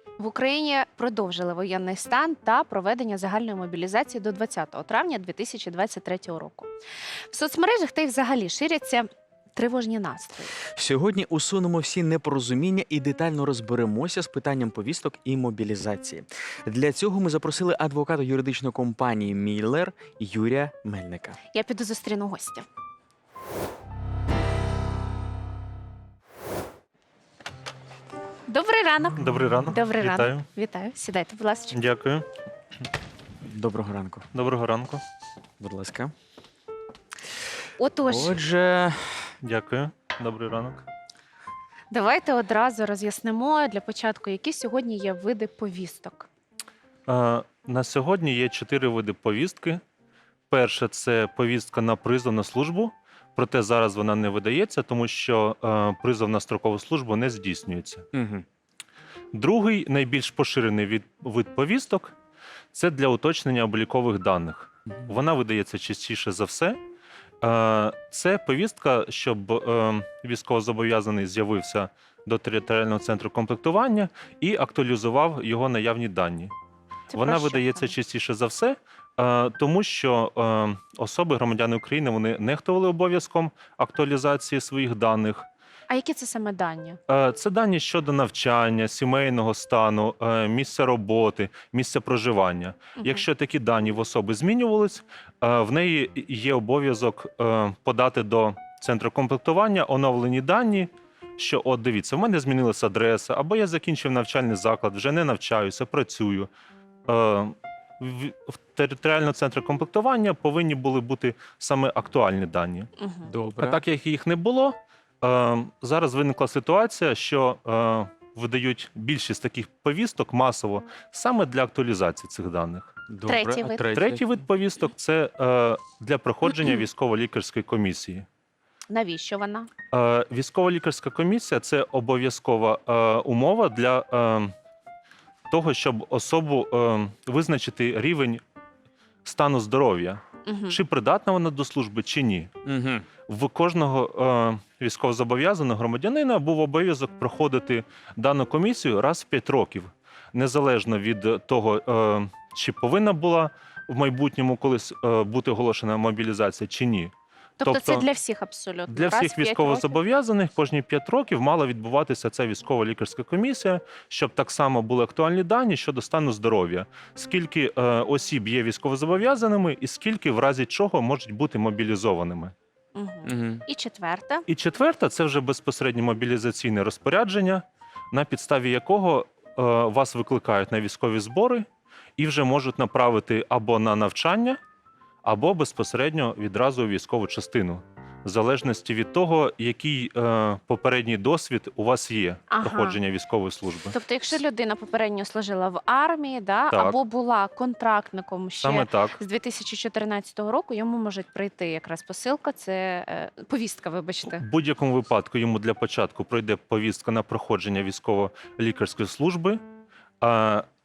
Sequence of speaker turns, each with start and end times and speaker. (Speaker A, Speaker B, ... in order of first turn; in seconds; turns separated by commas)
Speaker A: 0.2-6.7, Speaker A: 7.3-10.6, Speaker B: 10.7-21.4, Speaker A: 21.5-22.6, Speaker A: 28.5-31.8, Speaker C: 29.2-30.4, Speaker C: 31.7-32.2, Speaker B: 33.4-34.2, Speaker C: 34.3-35.0, Speaker B: 35.6-36.1, Speaker A: 37.8-38.4, Speaker B: 38.0-39.3, Speaker C: 39.4-40.8, Speaker A: 41.9-46.3, Speaker C: 47.1-49.8, Speaker C: 50.5-58.0, Speaker B: 58.1-58.4, Speaker C: 59.3-62.1, Speaker C: 62.7-66.8, Speaker C: 67.4-76.5, Speaker A: 77.1-77.9, Speaker C: 77.1-85.5, Speaker A: 85.9-87.0, Speaker C: 87.1-106.5, Speaker A: 93.0-93.2, Speaker C: 107.1-112.9, Speaker A: 113.0-113.3, Speaker B: 113.2-113.8, Speaker C: 113.6-122.9, Speaker B: 123.1-124.2, Speaker A: 123.2-123.9, Speaker C: 123.9-128.2, Speaker A: 128.9-129.7, Speaker C: 129.9-134.5, Speaker C: 135.5-138.4, Speaker C: 139.2-142.5, Speaker A: 140.4-140.8, Speaker B: 142.6-143.1, Speaker C: 143.3-158.0, Speaker A: 157.6-160.0, Speaker C: 158.9-172.5, Speaker A: 172.9-174.4, Speaker B: 173.2-173.6, Speaker C: 174.5-181.7, Speaker C: 182.2-184.6, Speaker C: 185.2-193.9, Speaker A: 192.5-193.0, Speaker A: 193.9-204.4, Speaker C: 196.7-197.0, Speaker C: 198.6-199.2, Speaker C: 204.4-209.6, Speaker C: 210.2-210.7